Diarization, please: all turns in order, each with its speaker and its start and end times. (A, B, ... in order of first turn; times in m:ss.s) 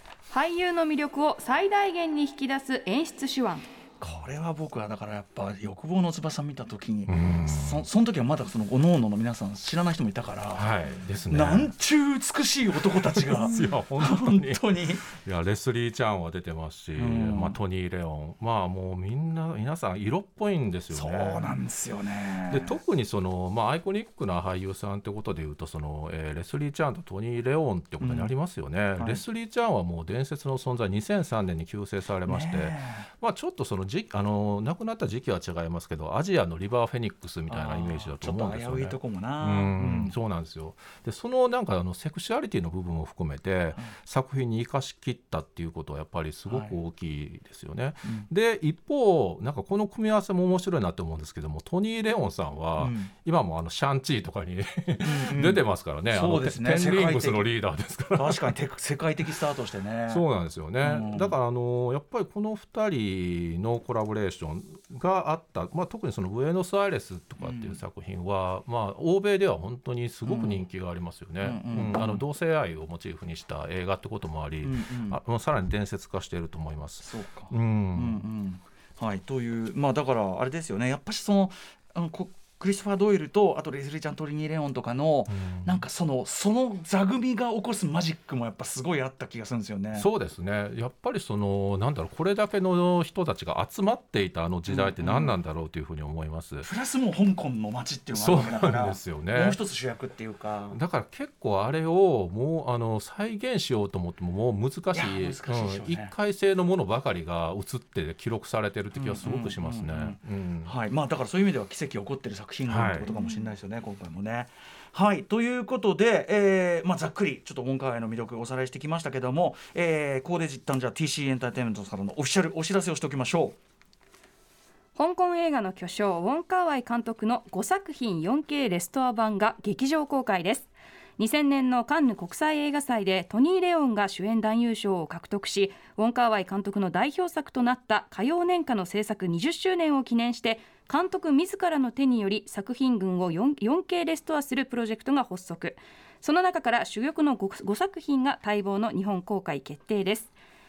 0:00.3-0:03.7 A
0:04.0-0:10.7 B
0:07.1-0:07.8 C
0:10.5-0:11.7 C
0:11.3-0:15.1 B
0:13.0-0:21.5 C
0:17.0-0:17.6 B
0:20.9-0:22.8 B
0:22.5-0:58.5 C
0:28.0-0:28.3 B
0:29.0-0:29.2 B
0:32.2-0:33.1 B
0:37.5-0:40.1 B
0:46.5-0:46.8 B
0:48.0-0:48.3 B
0:52.8-0:53.1 B
0:55.0-0:57.5 B
0:58.1-1:00.2 B
1:00.1-1:18.2 C
1:00.8-1:01.3 B
1:07.4-1:07.8 B
1:10.2-1:10.6 B
1:11.4-1:12.2 B
1:14.6-1:15.2 B
1:17.0-1:30.1 B
1:25.3-1:25.8 C
1:29.9-1:36.7 C
1:34.7-1:35.4 B
1:36.6-1:40.8 B
1:38.1-1:39.6 C
1:40.7-1:50.7 C
1:44.9-1:46.1 B
1:48.9-2:03.6 B
1:52.7-1:53.1 C
2:05.0-2:30.3 A